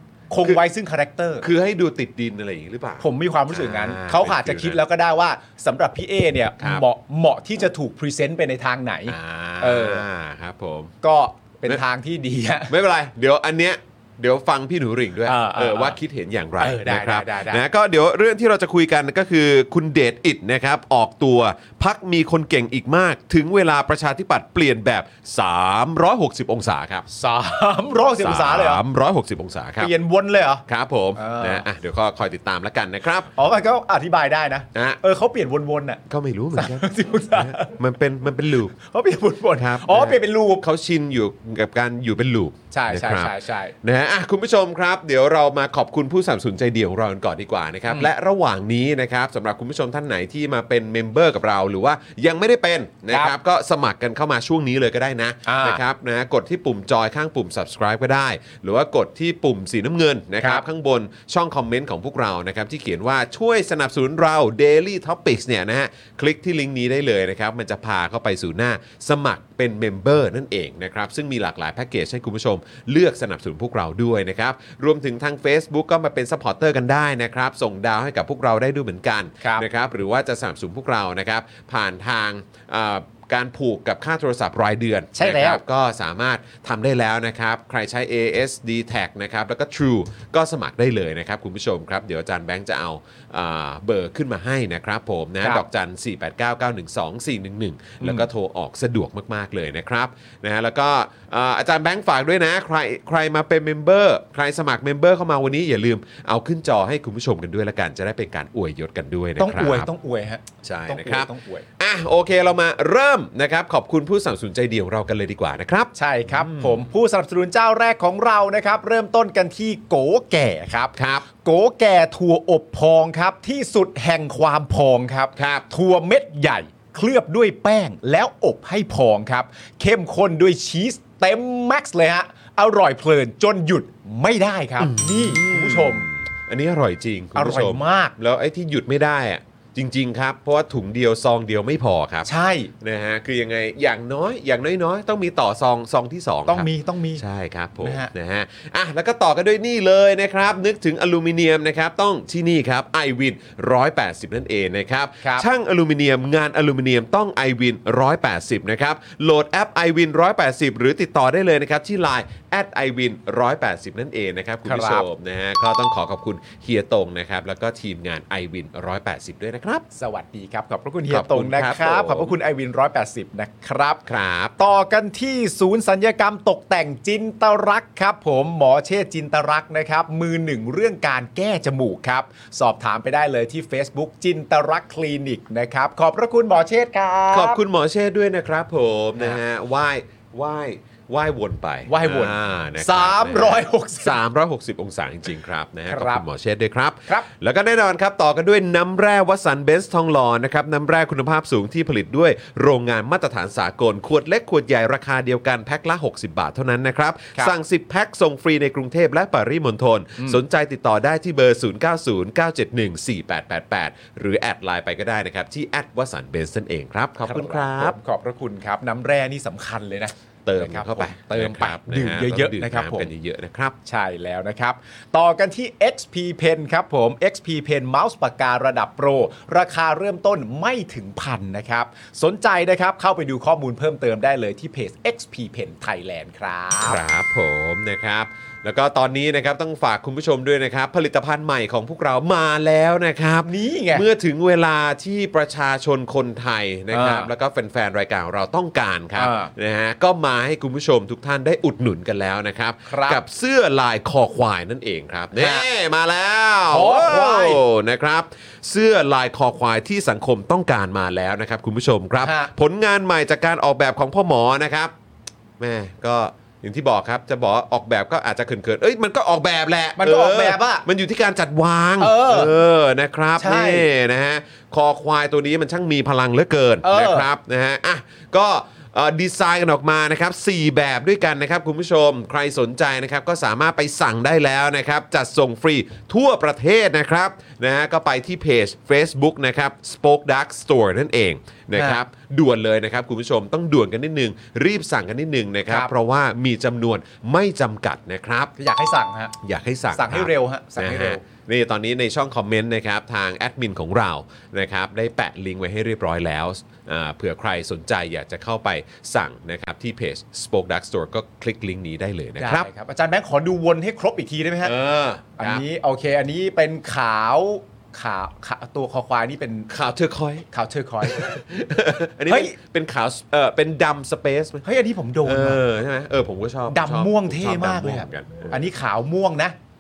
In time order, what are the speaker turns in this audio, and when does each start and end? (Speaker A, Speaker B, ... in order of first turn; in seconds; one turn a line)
Speaker A: 0.3-1.5
Speaker B: 1.4-4.8
Speaker A: 3.0-10.1
Speaker B: 9.1-10.9
Speaker A: 11.0-12.7
Speaker B: 12.7-27.0
Speaker A: 15.2-16.0
Speaker A: 16.6-17.6
Speaker A: 27.1-28.8
Speaker B: 28.2-29.9
Speaker A: 29.8-30.6
Speaker B: 30.7-33.3
Speaker A: 31.2-31.6
Speaker A: 33.4-36.0
Speaker B: 36.1-38.7
Speaker A: 36.5-37.8
Speaker A: 38.8-40.6
Speaker B: 39.6-109.9
Speaker A: 42.7-43.7
Speaker A: 55.5-55.8
Speaker A: 85.1-85.6
Speaker A: 98.0-98.3
Speaker A: 109.4-111.7
Speaker B: 110.6-116.8
Speaker A: 115.9-136.1
Speaker B: 121.0-121.2
Speaker B: 125.4-125.6
Speaker B: 134.8-142.3
Speaker A: 137.4-138.1
Speaker A: 142.2-142.7
Speaker B: 142.8-169.8
Speaker A: 146.5-147.2
Speaker A: 147.8-148.1
Speaker A: 164.6-165.1
Speaker A: 169.9-174.0
Speaker B: 171.1-172.3
Speaker B: 174.1-174.5
Speaker A: 174.6-187.6
Speaker B: 187.3-218.0
Speaker A: 191.9-194.2
Speaker A: 195.9-196.2
Speaker A: 217.2-223.1
Speaker B: 220.4-223.8
Speaker A: 223.8-237.0
Speaker B: 236.8-264.9
Speaker A: 243.4-244.1
Speaker A: 246.9-247.3
Speaker A: 249.2-249.5
Speaker A: 252.8-253.2
Speaker A: 255.3-255.7
Speaker A: 256.7-257.6
Speaker A: 262.2-262.5
Speaker B: 265.6-298.5
Speaker A: 270.0-270.9
Speaker A: 272.0-272.5
Speaker A: 273.4-273.9
Speaker A: 276.8-277.3
Speaker A: 291.8-292.0
Speaker A: 298.6-299.3
Speaker B: 299.4-312.7
Speaker A: 299.9-301.2
Speaker A: 312.4-314.7
Speaker B: 314.6-315.6
Speaker A: 315.4-319.7
Speaker B: 319.7-320.5
Speaker A: 320.5-321.3
Speaker B: 321.1-324.6
Speaker A: 322.3-322.5
Speaker A: 324.6-325.6
Speaker B: 325.2-328.6
Speaker A: 326.7-329.5